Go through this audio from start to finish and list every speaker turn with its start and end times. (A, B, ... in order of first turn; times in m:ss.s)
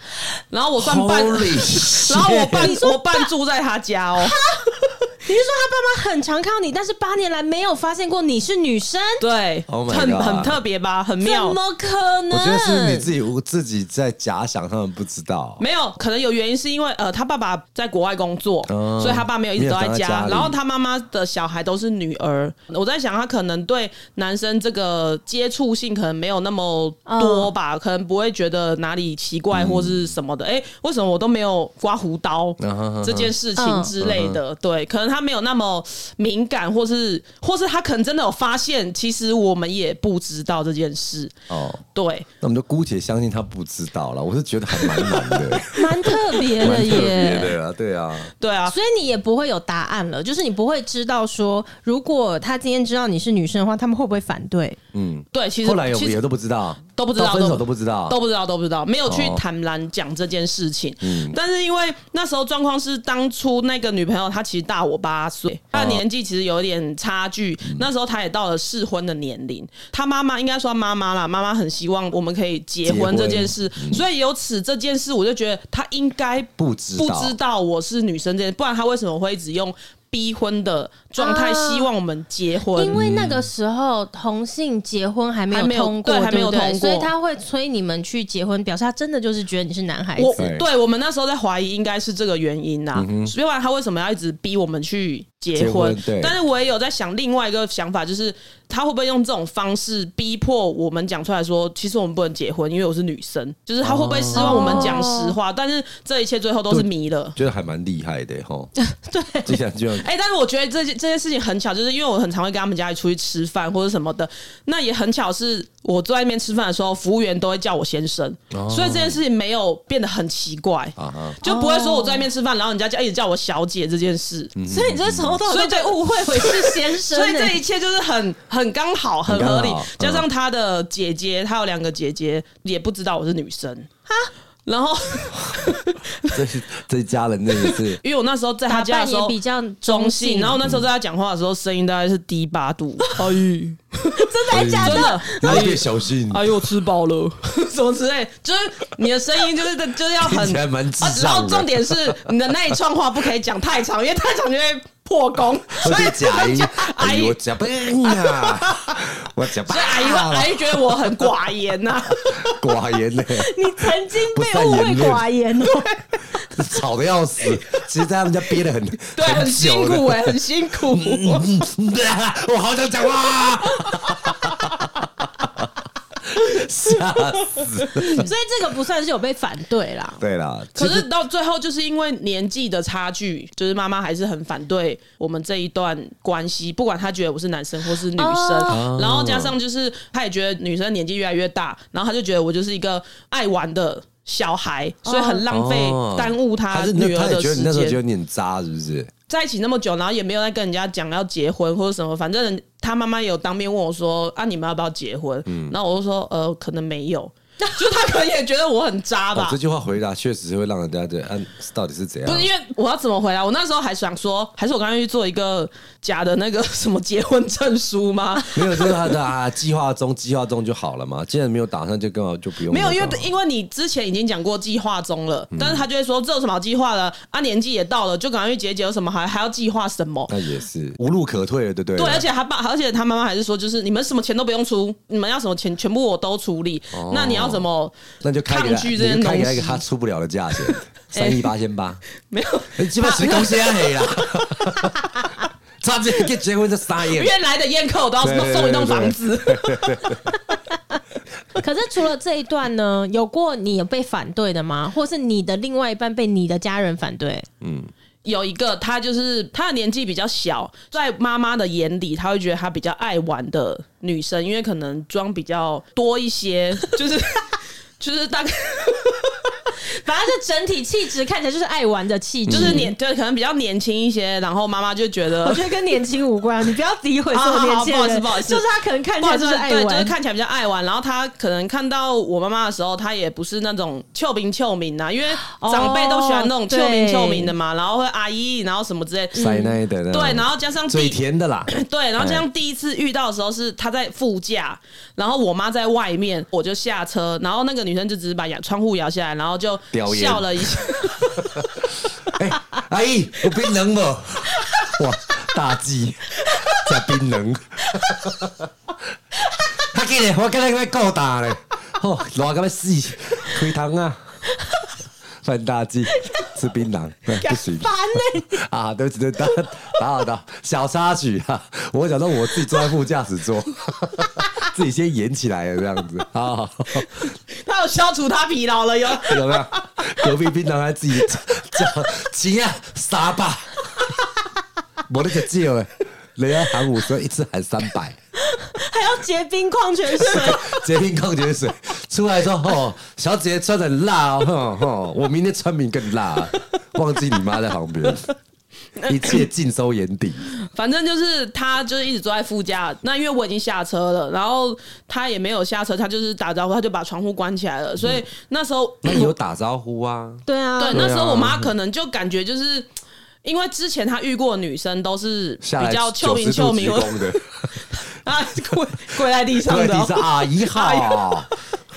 0:00.5-0:04.4 A
0:00.8-0:02.7 B
0:02.6-0:03.3 C
0:04.2-0:09.2 C
0:09.2-0:11.6 A
0:09.7-0:10.6 B
0:11.2-0:13.1 C
0:12.3-0:15.6 B
0:15.6-0:41.3 A
0:18.7-0:20.6 B
0:27.0-0:27.5 C
0:29.5-0:30.1 B
0:32.6-0:33.3 B
0:33.6-0:33.9 C
0:34.0-0:34.4 B
0:41.5-0:41.8 B
0:41.9-0:42.3 A
0:42.4-0:48.3 B
0:44.7-0:45.6 A
0:45.7-0:47.5 C
0:46.6-0:47.1 A
0:48.4-0:48.8 A
0:48.7-0:54.8 C
0:54.9-0:58.2 B
0:55.3-0:56.2 A
0:56.9-1:23.0 A
0:59.1-0:59.4 B
1:01.0-1:01.4 B
1:05.7-1:06.0 B
1:12.8-1:14.0 B
1:16.6-1:17.4 B
1:21.2-1:21.9 C
1:22.7-1:30.4 C
1:22.9-1:23.5 B
1:25.5-1:27.1 A
1:30.2-1:47.4 A
1:30.4-1:30.6 B
1:32.9-1:33.3 B
1:35.5-1:36.4 B
1:43.8-1:45.0 B
1:44.3-1:45.3 C
1:46.7-1:48.7 B
1:48.8-1:49.5 C
1:49.4-1:50.1 B
1:50.0-2:04.5 A
1:58.5-1:59.2 B
2:01.0-2:01.4 B
2:01.4-2:02.3 C
2:04.6-2:05.4 B
2:04.7-2:07.6 C
2:05.5-2:13.9 A
2:09.3-2:10.2 B
2:14.7-2:16.4 A
2:15.4-2:15.7 B
2:16.2-2:18.0 B
2:17.7-2:37.4 A
2:18.7-2:20.6 C
2:24.1-2:25.7 C
2:24.5-2:26.5 B
2:30.2-2:32.2 B
2:35.8-2:41.3 B
2:38.2-2:38.7 A
2:39.7-2:42.6 A
2:42.2-2:45.8 B
2:43.3-2:46.2 C
2:46.4-2:55.7 B
2:49.1-2:51.5 A
2:56.2-2:58.3 B
2:58.0-3:00.2 C
3:00.2-3:01.1 B
3:00.8-3:18.0 A
3:08.1-3:08.8 C
3:08.7-3:09.6 B
3:15.0-3:15.4 C
3:15.5-3:19.1 B
3:19.3-3:29.6 A
3:25.4-3:25.8 B
3:29.3-3:32.5 B
3:32.2-3:39.1 A
3:38.5-3:43.3 B
3:42.7-3:50.3 A
3:45.5-3:45.9 B
3:50.3-3:52.2 B
3:52.0-3:57.9 A
3:56.9-3:57.7 B
3:58.2-4:02.0 B
3:58.5-3:59.8 A
4:00.6-4:01.5 A
4:02.3-4:05.3 A
4:02.7-4:07.3 B
4:07.1-4:10.2 A
4:08.2-4:10.4 B
4:11.5-4:17.4 C
4:17.6-4:17.9 B
4:18.2-4:29.3 A
4:29.9-4:32.9 C
4:32.5-4:32.9 B
4:32.5-4:35.7 A
4:35.4-4:40.1 C
4:37.3-4:38.6 A
4:39.2-4:49.6 A
4:45.4-4:47.5 C
4:49.3-4:52.4 B
4:49.4-4:49.7 C
4:50.1-5:01.4 A
4:59.9-5:08.7 B
5:09.7-5:14.2 B
5:15.4-5:27.3 B
5:16.2-5:16.5 C
5:17.5-5:18.6 C
5:27.6-5:30.0 A
5:29.2-5:34.1 B
5:35.1-5:38.2 B
5:38.5-5:40.8 C
5:40.2-5:48.3 B
5:49.0-5:49.4 A
5:49.1-5:50.5 B
5:50.6-5:59.3 A
5:59.0-6:01.7 B
6:00.4-6:01.1 C
6:00.8-6:02.9 A
6:03.4-6:11.6 A
6:05.6-6:07.9 B
6:09.6-6:11.5 B